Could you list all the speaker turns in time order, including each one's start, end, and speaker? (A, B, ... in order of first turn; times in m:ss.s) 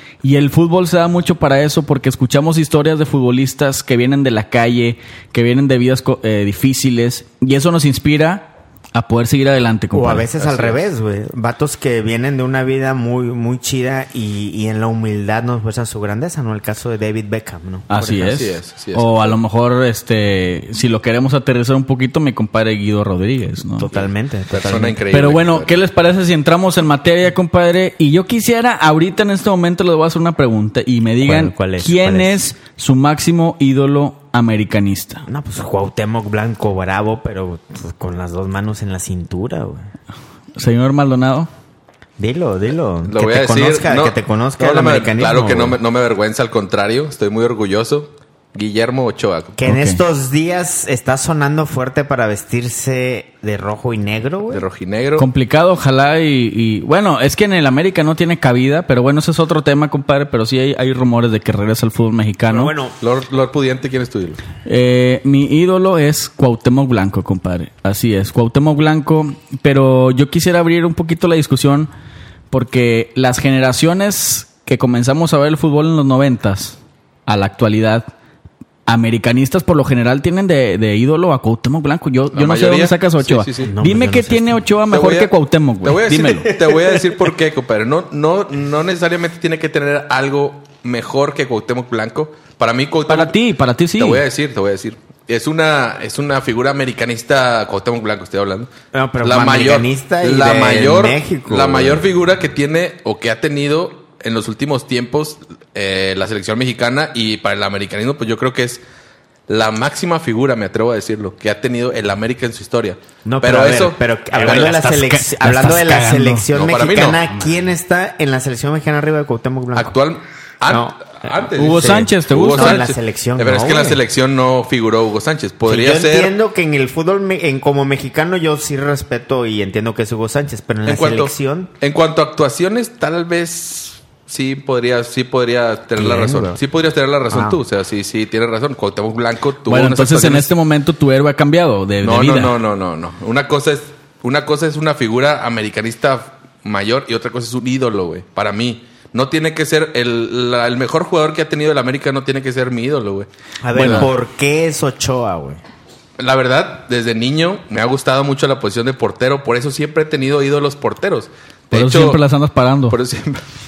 0:00.2-0:10.3 A
0:09.9-0:18.3 B
0:10.4-0:10.8 C
0:17.9-0:23.9 A
0:18.2-0:19.4 C
0:23.8-0:25.0 B
0:23.9-0:25.8 C
0:25.1-0:35.3 A
0:31.2-0:32.3 B
0:35.3-0:39.9 B
0:40.6-0:41.5 A
0:42.2-0:45.8 B
0:43.0-0:49.7 C
0:49.6-0:54.6 B
0:49.6-0:50.0 A
0:54.5-0:55.3 C
0:55.2-1:02.7 A
1:02.5-1:03.0 B
1:03.0-1:04.4 C
1:04.6-1:11.9 A
1:12.5-1:18.1 A
1:18.9-1:26.5 A
1:22.3-1:23.7 C
1:23.6-1:24.6 B
1:24.9-1:25.3 C
1:25.8-1:33.4 C
1:26.6-1:27.2 B
1:33.1-1:34.2 A
1:34.0-1:38.7 C
1:38.9-1:42.0 B
1:39.2-1:48.8 C
1:49.5-1:54.7 C
1:53.2-1:59.9 B
1:54.3-1:56.5 A
1:56.5-1:57.3 C
1:59.8-2:06.3 C
2:00.7-2:04.0 B
2:01.6-2:02.8 A
2:05.7-2:11.7 B
2:10.8-2:20.5 C
2:16.0-2:16.6 B
2:17.3-2:17.6 B
2:19.7-2:22.6 A
2:22.0-2:34.1 C
2:33.6-2:35.6 B
2:33.7-2:34.1 A
2:36.2-2:42.2 C
2:41.7-2:43.0 A
2:42.9-2:43.5 C